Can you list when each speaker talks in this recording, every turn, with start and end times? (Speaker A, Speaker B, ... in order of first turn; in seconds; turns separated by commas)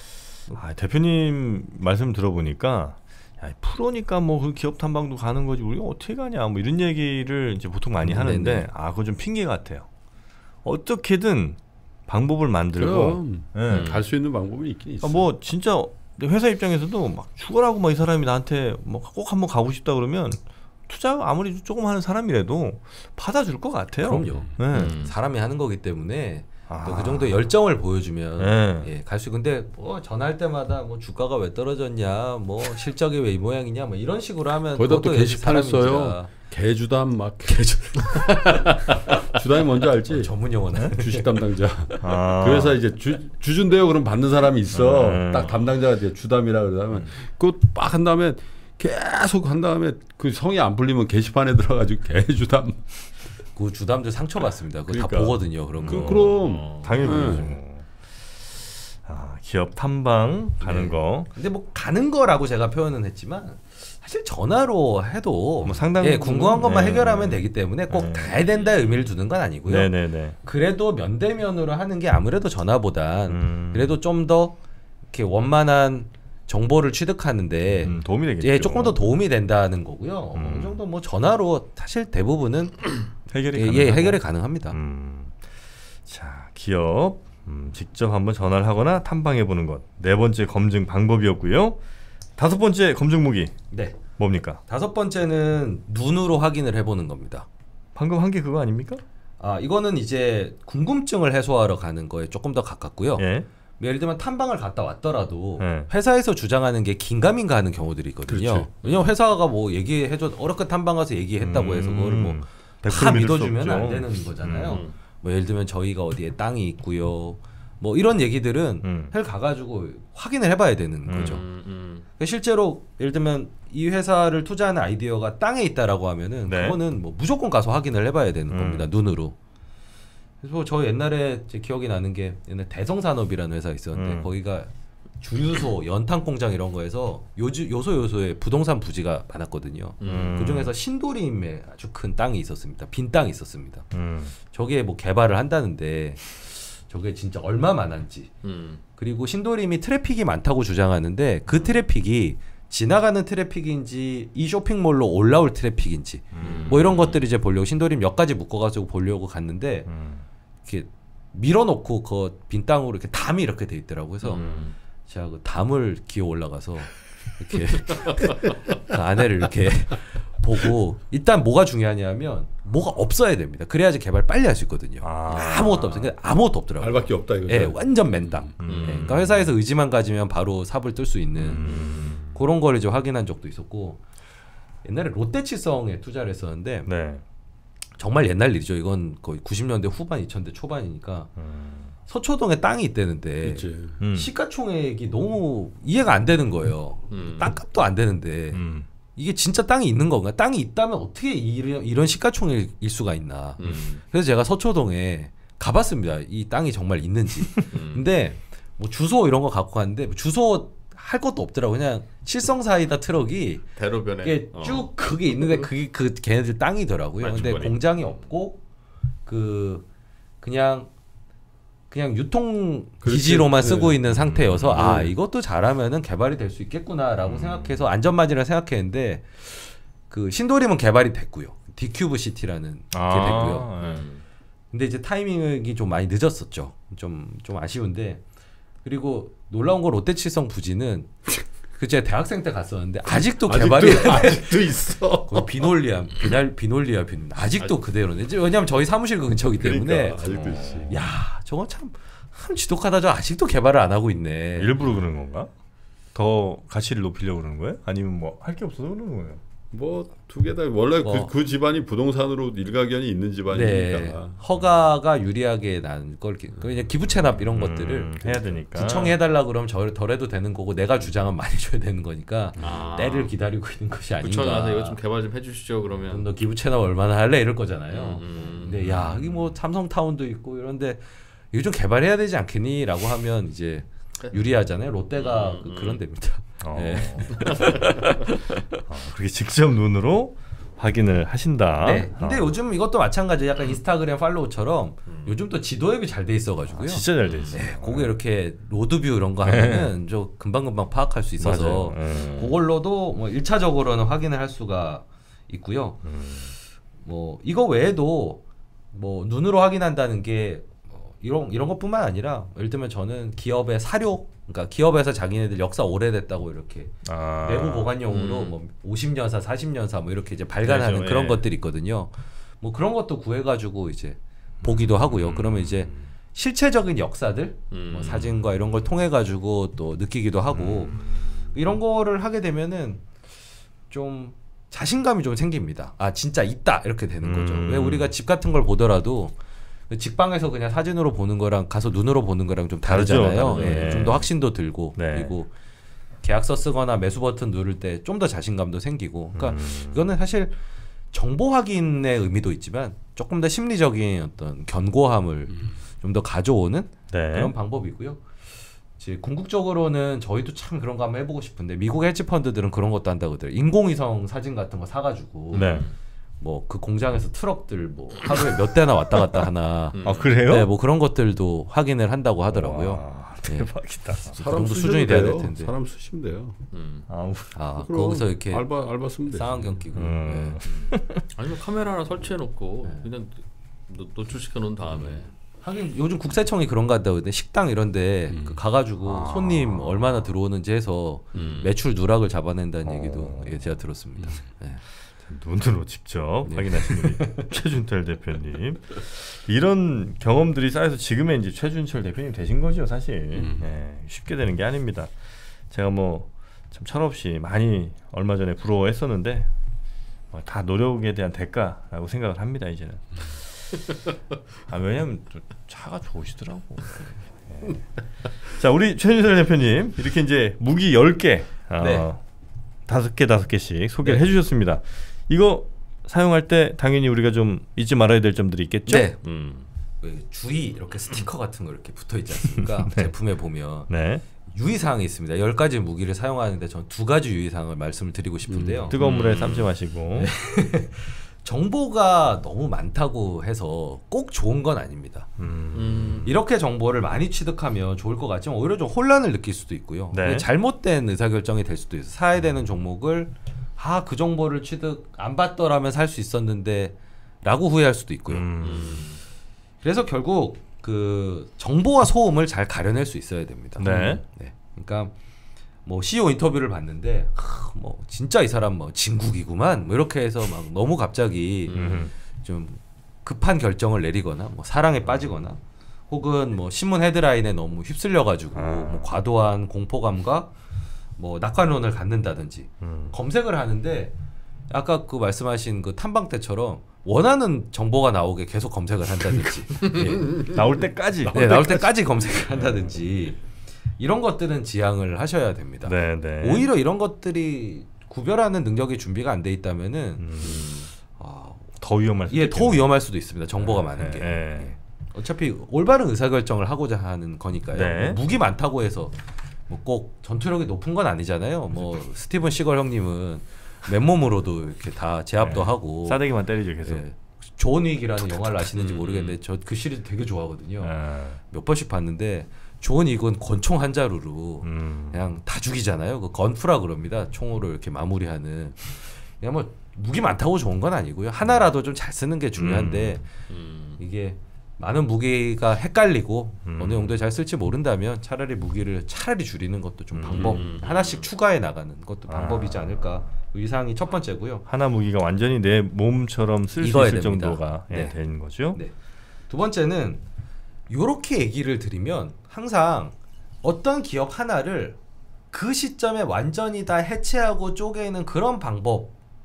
Speaker A: 0.5-9.9, Speaker B: 8.0-8.7, Speaker A: 10.7-13.9, Speaker C: 12.8-15.3, Speaker D: 13.7-14.1, Speaker A: 15.0-25.0, Speaker B: 24.0-36.3, Speaker D: 24.7-25.1, Speaker A: 26.7-27.5, Speaker A: 28.4-28.9, Speaker C: 34.8-40.3, Speaker B: 38.1-38.9, Speaker B: 40.0-41.4, Speaker C: 40.9-52.9, Speaker A: 42.0-42.8, Speaker A: 44.7-45.6, Speaker B: 53.5-56.4, Speaker C: 54.9-57.5, Speaker A: 55.8-57.9, Speaker D: 56.4-57.3, Speaker B: 57.0-57.4, Speaker A: 58.5-61.3, Speaker B: 60.6-74.6, Speaker A: 65.6-68.4, Speaker A: 69.7-70.4, Speaker A: 73.3-74.0, Speaker B: 75.1-83.0, Speaker A: 77.7-79.1, Speaker A: 80.3-80.8, Speaker A: 83.3-85.4, Speaker B: 83.5-84.8, Speaker A: 86.1-91.8, Speaker A: 92.4-93.6, Speaker B: 93.7-94.0, Speaker A: 94.1-94.6, Speaker B: 94.7-97.5, Speaker A: 98.0-99.0, Speaker B: 99.4-103.3, Speaker A: 103.2-103.5, Speaker B: 103.8-121.5, Speaker A: 105.6-105.9, Speaker C: 108.3-108.7, Speaker A: 111.4-114.8, Speaker D: 114.7-115.0, Speaker A: 118.8-119.1, Speaker A: 121.1-121.4, Speaker D: 121.1-122.0, Speaker B: 122.2-129.4, Speaker A: 126.5-126.8, Speaker A: 128.5-128.9, Speaker B: 130.4-134.7, Speaker A: 133.9-134.3, Speaker B: 135.2-143.9, Speaker D: 140.0-140.5, Speaker A: 140.0-140.7, Speaker A: 143.9-144.3, Speaker B: 144.4-148.3, Speaker D: 148.4-148.8, Speaker B: 149.0-159.9, Speaker A: 156.3-156.9, Speaker D: 156.4-157.2, Speaker A: 159.9-160.2, Speaker B: 160.7-164.5, Speaker D: 164.2-164.8, Speaker A: 164.4-164.7, Speaker B: 165.1-184.0, Speaker A: 175.0-176.1, Speaker C: 176.8-178.5, Speaker A: 178.6-179.5, Speaker D: 178.7-179.1, Speaker A: 181.4-182.2, Speaker D: 181.6-182.2, Speaker B: 184.8-186.9, Speaker A: 186.9-187.2, Speaker B: 188.0-191.3, Speaker A: 191.4-191.9, Speaker B: 192.1-198.6, Speaker C: 193.4-194.0, Speaker A: 194.0-194.3, Speaker D: 197.1-197.6, Speaker A: 198.5-198.9, Speaker B: 199.2-213.7, Speaker D: 203.6-204.0, Speaker D: 207.7-208.1, Speaker D: 213.8-214.9, Speaker B: 214.2-218.6, Speaker D: 217.2-218.3, Speaker B: 219.3-219.9, Speaker B: 220.4-220.9, Speaker B: 221.9-233.7, Speaker C: 223.0-224.0, Speaker A: 224.1-225.0, Speaker C: 224.7-225.2, Speaker A: 227.2-227.8, Speaker A: 232.9-234.1, Speaker D: 233.2-234.2, Speaker B: 234.7-238.2, Speaker B: 238.8-244.7, Speaker C: 243.2-245.7, Speaker B: 245.2-250.2, Speaker A: 249.6-251.1, Speaker C: 250.0-251.0, Speaker B: 250.9-254.7, Speaker A: 254.6-255.5, Speaker A: 256.1-259.4, Speaker C: 259.7-264.4, Speaker B: 261.0-261.3, Speaker B: 263.5-275.0, Speaker A: 267.4-269.2, Speaker D: 272.6-273.3, Speaker D: 274.2-276.3, Speaker B: 276.1-288.8, Speaker D: 277.9-278.8, Speaker A: 278.8-279.5, Speaker D: 285.2-286.0, Speaker A: 286.6-288.1, Speaker A: 288.9-292.6, Speaker B: 291.8-306.0, Speaker A: 296.7-298.1, Speaker D: 297.2-297.6, Speaker A: 299.4-299.9, Speaker A: 301.4-302.5, Speaker D: 302.1-302.6, Speaker A: 306.0-306.5, Speaker B: 307.0-333.0, Speaker A: 317.0-318.0, Speaker D: 318.1-318.6, Speaker A: 320.6-321.4, Speaker A: 324.6-326.1, Speaker D: 327.7-328.4, Speaker A: 330.5-331.4, Speaker B: 333.9-339.4, Speaker A: 337.2-338.1, Speaker B: 339.9-345.5, Speaker A: 342.9-344.3, Speaker A: 345.0-345.4, Speaker B: 346.2-350.6, Speaker A: 349.4-350.1, Speaker B: 351.1-358.2, Speaker A: 357.1-357.5, Speaker B: 359.0-365.8, Speaker A: 365.5-365.9, Speaker D: 365.5-365.9, Speaker B: 366.4-373.7, Speaker D: 370.0-370.3, Speaker A: 370.0-370.7, Speaker A: 372.5-374.4, Speaker B: 374.3-375.7, Speaker C: 374.3-376.6, Speaker D: 376.7-377.1, Speaker A: 377.1-377.6, Speaker B: 377.5-378.7, Speaker C: 377.8-379.9, Speaker B: 379.3-380.6, Speaker A: 379.9-381.2, Speaker D: 380.3-385.3, Speaker B: 385.6-394.8, Speaker C: 388.3-388.6, Speaker A: 389.1-390.2, Speaker D: 391.4-391.7, Speaker A: 392.8-393.8, Speaker A: 395.2-405.1, Speaker B: 396.5-397.5, Speaker A: 405.7-409.5, Speaker A: 410.3-413.9, Speaker A: 414.7-422.2, Speaker B: 421.8-422.1, Speaker A: 422.9-429.1, Speaker B: 428.9-429.2, Speaker D: 429.2-429.7, Speaker B: 430.0-433.9, Speaker A: 432.6-433.1, Speaker A: 433.9-434.2, Speaker B: 434.5-439.0, Speaker D: 438.5-439.7, Speaker A: 438.9-440.3, Speaker B: 440.2-445.3, Speaker A: 445.4-446.3, Speaker D: 445.7-446.3, Speaker B: 446.2-458.5, Speaker A: 450.1-450.5, Speaker A: 458.3-459.1, Speaker D: 458.6-459.2, Speaker B: 459.8-465.1, Speaker A: 463.8-464.2, Speaker B: 465.9-480.5, Speaker D: 471.7-472.0, Speaker A: 471.7-472.1, Speaker A: 478.6-479.1, Speaker B: 481.2-484.1, Speaker A: 482.8-483.1, Speaker B: 484.7-490.5, Speaker A: 490.3-492.9, Speaker B: 491.3-493.4, Speaker B: 494.0-500.6, Speaker A: 495.8-496.7, Speaker A: 500.2-500.7, Speaker D: 500.4-500.9, Speaker B: 501.1-501.8, Speaker A: 501.8-502.9, Speaker B: 502.3-509.2, Speaker A: 503.6-504.7, Speaker A: 507.7-508.2, Speaker B: 509.7-516.2, Speaker A: 515.4-517.0, Speaker B: 516.8-533.3, Speaker D: 518.8-519.4, Speaker A: 520.8-521.4, Speaker A: 524.6-525.2, Speaker A: 532.6-533.2, Speaker D: 533.5-534.0, Speaker B: 534.0-544.6, Speaker A: 536.6-537.2, Speaker A: 540.1-540.7, Speaker D: 540.3-541.3, Speaker A: 542.3-543.0, Speaker A: 544.7-548.8, Speaker B: 546.8-548.2, Speaker B: 549.5-550.2, Speaker B: 550.9-555.0, Speaker B: 555.5-559.1